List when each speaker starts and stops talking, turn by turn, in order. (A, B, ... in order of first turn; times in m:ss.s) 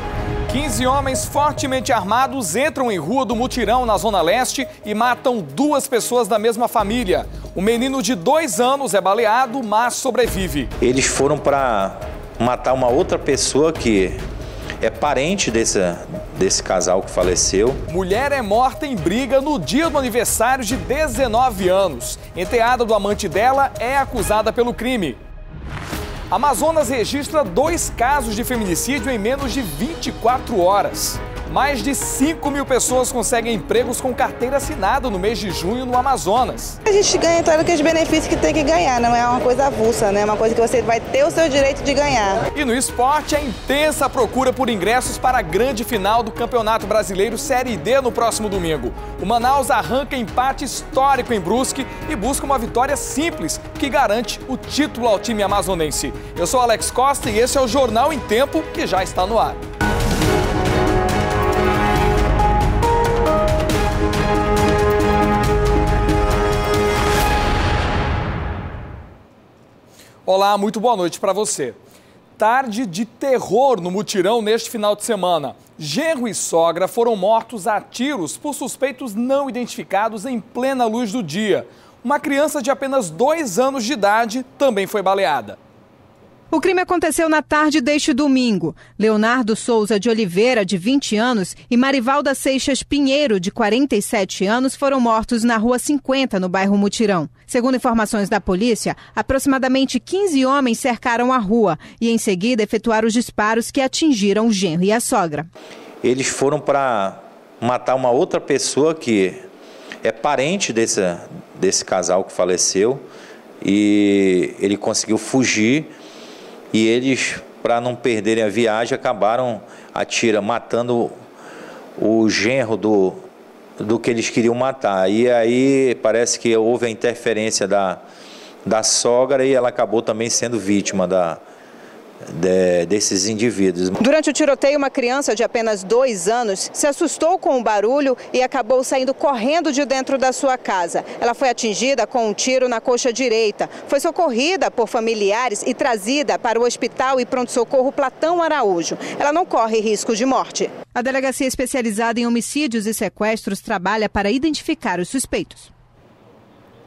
0:00.5-0:10.7 A
0:10.8-0:14.2 B
0:14.8-0:17.8 B
0:17.9-0:25.2 A
0:26.3-0:36.8 A
0:36.8-0:42.4 C
0:42.5-0:59.6 A
1:10.2-1:11.8 A
1:12.4-1:25.6 A
1:26.5-1:45.5 D
1:46.0-1:49.4 B
1:50.0-1:53.0 B
1:53.6-1:55.9 B
1:56.7-2:01.2 B
2:02.0-2:03.2 B
2:03.8-2:08.0 B
2:08.6-2:11.4 B
2:12.3-2:14.0 B
2:14.0-2:35.7 D